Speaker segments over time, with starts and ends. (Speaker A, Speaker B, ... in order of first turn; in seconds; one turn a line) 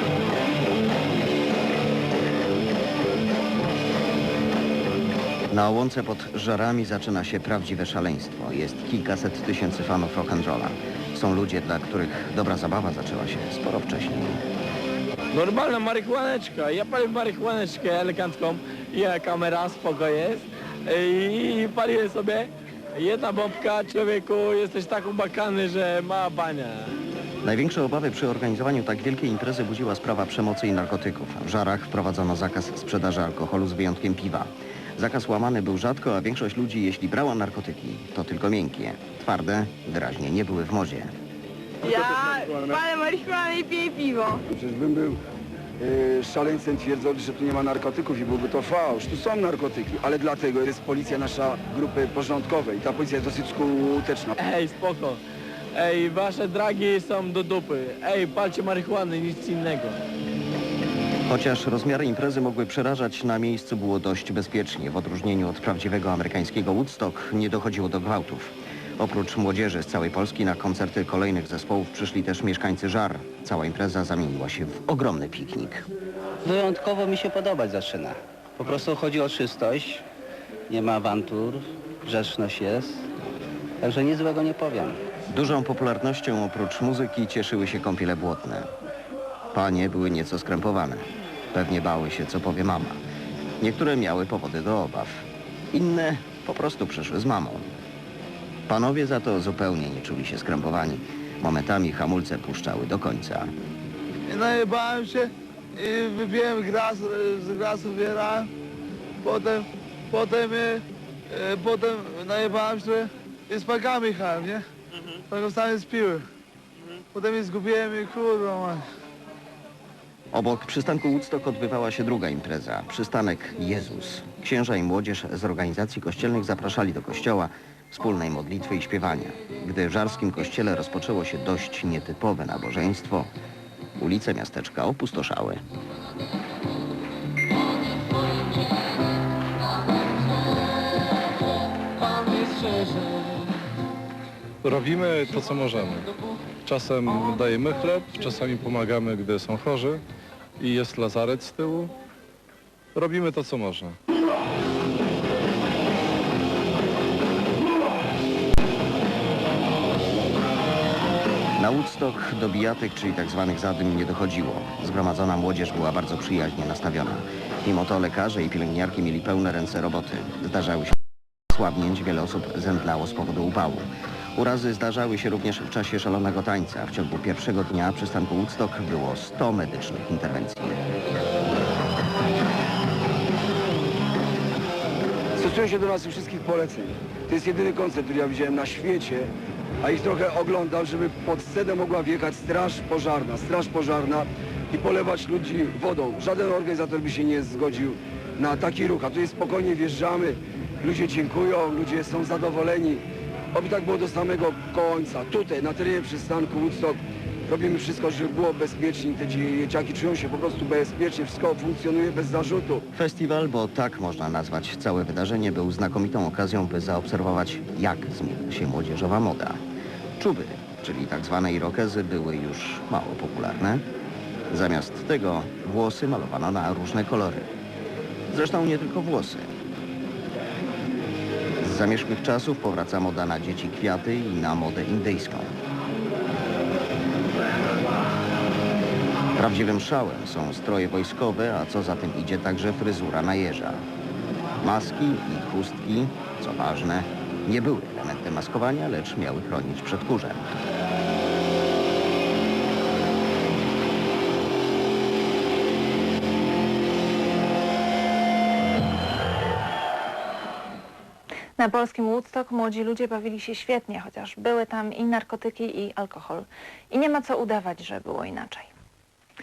Speaker A: 5.5-14.4
Speaker B: 15.3-26.9
Speaker A: 27.4-41.1
Speaker C: 41.8-44.4
Speaker D: 41.9-42.8
Speaker D: 44.5-45.2
Speaker D: 45.8-54.3
Speaker B: 54.4-55.2
Speaker B: 55.7-60.0
Speaker A: 61.3-75.8
Speaker E: 76.4-80.0
Speaker E: 80.7-83.0
Speaker E: 83.8-85.0
Speaker A: 85.3-88.7
Speaker A: 89.5-93.0
Speaker A: 93.6-97.7
Speaker A: 98.7-103.5
Speaker F: 104.3-108.5
Speaker F: 109.2-114.6
Speaker F: 115.3-116.2
Speaker F: 117.1-118.8
Speaker A: 120.3-133.3
Speaker A: 134.0-135.6
Speaker G: 142.2-143.0
Speaker G: 144.6-146.1
Speaker G: 146.7-150.0
Speaker G: 150.6-151.9
Speaker G: 152.9-153.9
Speaker A: 161.6-170.9
Speaker A: 171.5-180.8
Speaker D: 185.4-212.8
Speaker A: 212.9-219.6
Speaker A: 220.2-223.8
Speaker A: 224.5-227.5
Speaker A: 228.3-229.5
Speaker A: 231.6-235.5
Speaker A: 239.3-243.8
Speaker A: 244.6-250.5
Speaker H: 261.6-268.7